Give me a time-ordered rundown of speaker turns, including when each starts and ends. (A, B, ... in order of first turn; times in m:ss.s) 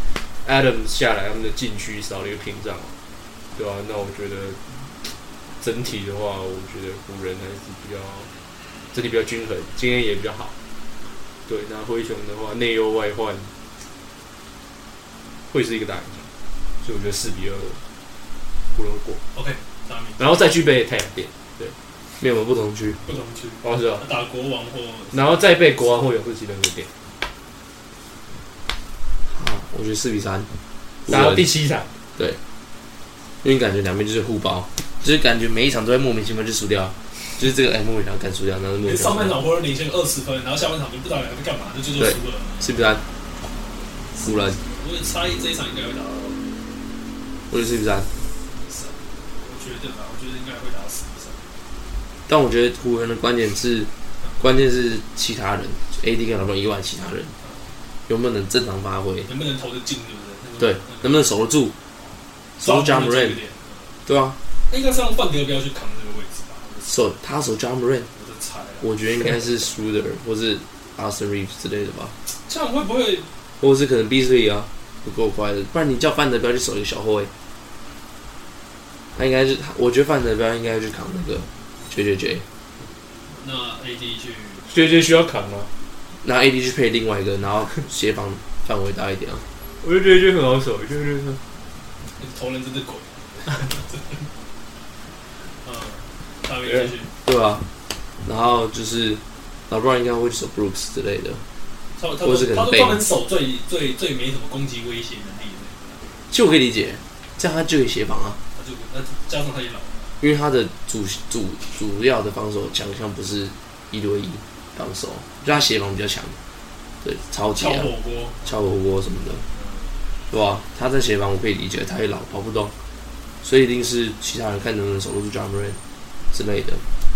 0:00.4-0:02.9 A
0:03.6-0:04.8 A
0:05.6-0:08.3 A
0:08.9-0:10.5 A
0:11.5-0:13.5 A
0:15.5-0:16.3 A
0:16.8-0:17.8 A
0:18.7-0:19.2 A
0:19.3-0:20.2 B
0:20.2-0:21.7 A
0:22.2-0:23.0 C
0:23.0-0:25.9 B
0:23.6-0:24.0 A
0:25.1-0:26.9 A
0:29.3-0:30.5 C
0:31.0-0:31.5 C
0:31.1-0:31.9 A
0:33.4-0:39.4 C
0:38.8-0:42.8 B
0:42.0-0:43.0 C
0:44.2-0:46.4 B
0:44.2-0:44.6 C
0:47.5-0:48.1 C
0:48.5-0:51.5 B
0:52.3-0:57.3 C
0:57.4-0:57.7 B
0:58.1-0:59.3 C
0:59.3-1:01.4 B
1:00.6-1:01.7 C
1:02.6-1:03.4 C
1:02.6-1:03.9 B
1:04.0-1:04.4 C
1:04.7-1:07.0 B
1:06.9-1:08.1 C
1:08.1-1:08.9 B
1:08.8-1:12.1 C
1:12.3-1:13.3 B
1:13.6-1:17.3 C
1:19.2-1:22.4 C
1:23.3-1:24.7 B
1:24.7-1:25.7 A
1:26.2-1:29.4 C
1:29.8-1:31.4 A
1:32.2-1:34.3 B
1:35.6-1:37.1 B
1:36.6-1:36.9 A
1:37.2-1:37.6 C
1:38.2-1:41.4 C
1:42.0-1:46.1 B
1:42.2-1:43.0 C
1:46.3-1:48.4 C
1:48.5-1:50.1 B
1:50.2-1:56.4 C
1:57.0-1:59.4 C
1:57.5-1:58.5 B
1:59.5-1:59.9 B
2:00.3-2:02.7 C
2:03.4-2:05.8 C
2:06.3-2:06.8 C